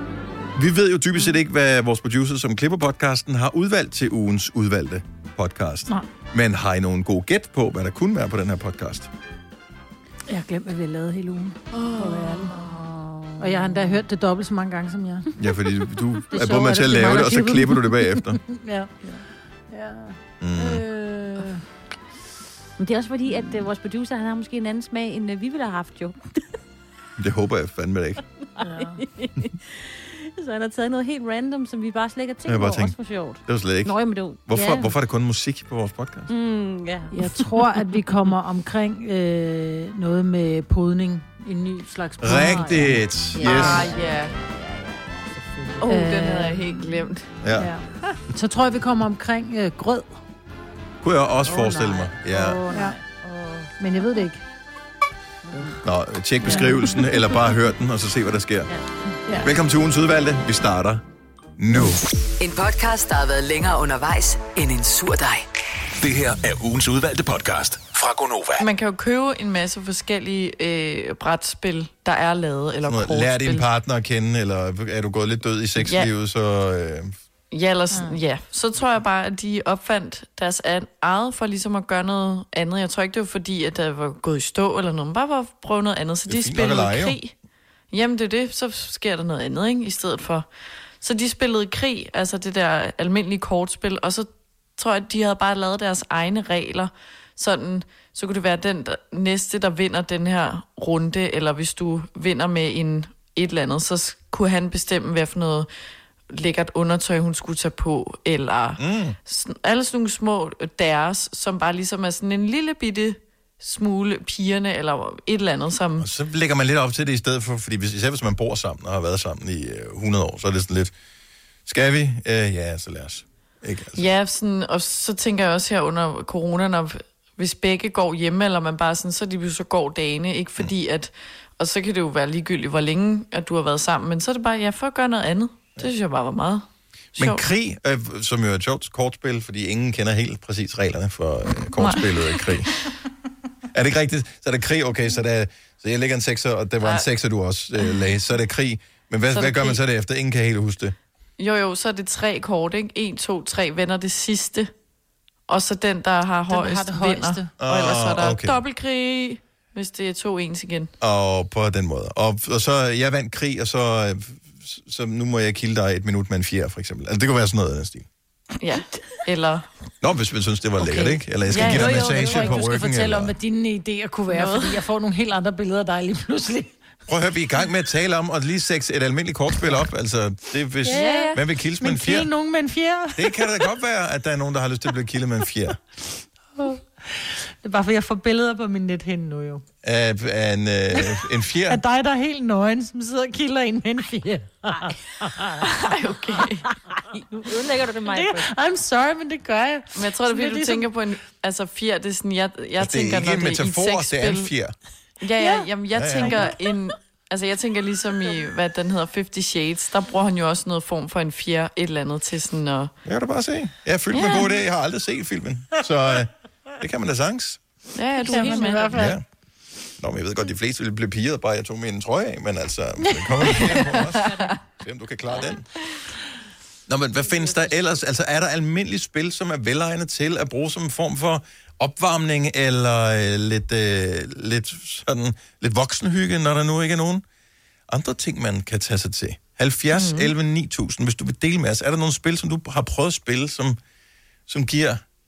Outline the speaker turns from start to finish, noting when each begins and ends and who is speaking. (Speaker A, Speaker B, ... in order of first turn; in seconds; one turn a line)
Speaker A: 0.5-9.1
Speaker B: 10.3-12.5
Speaker C: 11.7-12.6
Speaker D: 12.5-13.9
Speaker B: 13.4-15.3
Speaker A: 15.4-18.4
Speaker B: 16.3-19.1
Speaker D: 16.5-17.0
Speaker B: 19.7-21.6
Speaker A: 20.4-20.8
Speaker D: 22.8-26.2
Speaker A: 27.2-28.2
Speaker B: 28.6-29.0
Speaker D: 28.6-34.9
Speaker A: 32.5-33.9
Speaker A: 34.5-36.3
Speaker D: 36.3-37.4
Speaker B: 37.1-43.8
Speaker A: 42.2-43.9
Speaker D: 42.4-45.6
Speaker C: 43.4-44.3
Speaker C: 45.8-47.2
Speaker B: 45.9-46.9
Speaker A: 47.4-47.7
Speaker B: 47.5-50.1
Speaker A: 51.0-52.6
Speaker D: 51.4-53.7
Speaker B: 52.7-53.0
Speaker B: 53.8-54.4
Speaker D: 55.5-55.8
Speaker A: 55.8-58.7
Speaker D: 56.4-57.2
Speaker A: 59.4-61.0
Speaker A: 61.6-62.0
Speaker E: 62.4-65.5
Speaker F: 66.0-68.7
Speaker C: 68.6-73.7
Speaker A: 72.8-77.1
Speaker C: 75.8-76.1
Speaker C: 77.5-87.3
Speaker A: 86.3-87.2
Speaker C: 87.9-90.5
Speaker C: 91.0-105.7
Speaker C: 106.3-116.1
Speaker A: 108.8-109.2
Speaker A: 116.0-120.9
Speaker A: 121.7-124.1
Speaker C: 124.0-137.4
Speaker A: 137.2-142.7
Speaker C: 141.8-142.7
Speaker A: 143.7-150.9
Speaker C: 146.8-147.1
Speaker C: 149.3-149.8
Speaker C: 151.4-154.7
Speaker C: 155.5-160.9
Speaker B: 156.5-157.5
Speaker A: 157.6-158.6
Speaker A: 161.0-168.1
Speaker C: 168.6-169.7
Speaker A: 170.0-173.3
Speaker B: 170.8-176.8
Speaker C: 171.5-172.2
Speaker D: 171.7-172.6
Speaker C: 174.3-174.8
Speaker A: 177.1-182.3
Speaker C: 180.9-181.4
Speaker D: 180.9-181.2
Speaker B: 180.9-183.3
Speaker A: 183.2-185.8
Speaker B: 187.6-189.6
Speaker A: 189.8-191.8
Speaker B: 191.7-195.7
Speaker C: 195.6-196.6
Speaker D: 197.1-198.5
Speaker B: 198.1-200.9
Speaker C: 199.9-204.5
Speaker A: 202.8-204.8
Speaker C: 205.2-212.9
Speaker D: 205.4-205.7
Speaker A: 205.9-206.5
Speaker A: 213.0-217.6
Speaker C: 214.1-214.5
Speaker C: 217.9-219.0
Speaker D: 218.2-218.8
Speaker B: 218.3-219.1
Speaker A: 218.9-219.2
Speaker A: 220.0-225.7
Speaker C: 223.7-224.4
Speaker A: 226.9-237.2
Speaker A: 237.9-243.8
Speaker C: 239.9-240.3
Speaker A: 244.5-245.0